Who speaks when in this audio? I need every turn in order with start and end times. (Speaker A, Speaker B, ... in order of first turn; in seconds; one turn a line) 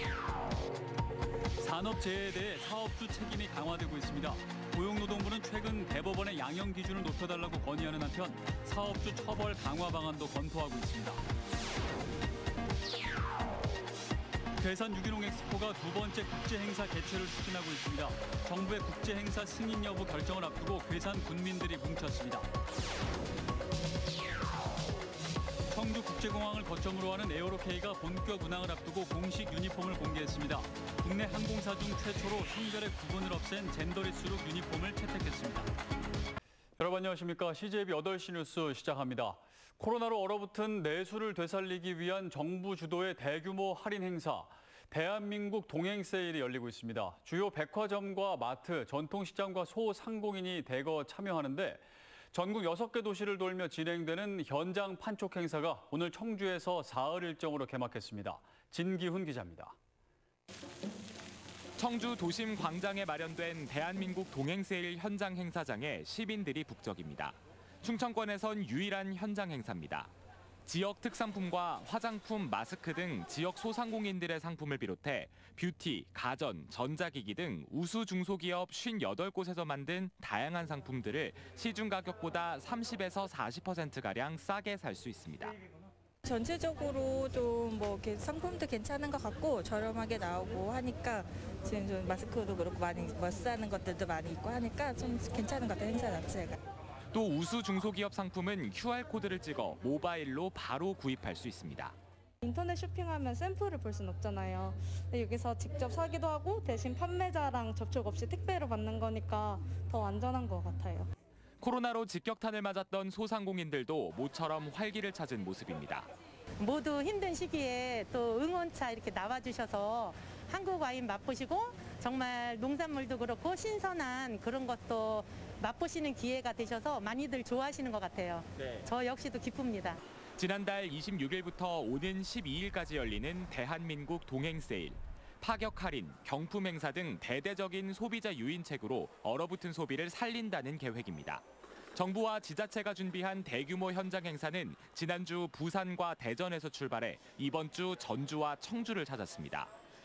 Speaker A: 1.6-11.2
Speaker A: 14.6-22.5
Speaker A: 25.7-35.7
Speaker A: 36.8-59.8
Speaker B: 61.8-70.1
Speaker B: 70.7-85.6
Speaker C: 86.2-96.6
Speaker B: 97.1-102.0
Speaker D: 102.4-111.1
Speaker B: 111.6-116.1
Speaker E: 116.6-130.0
Speaker B: 130.4-149.7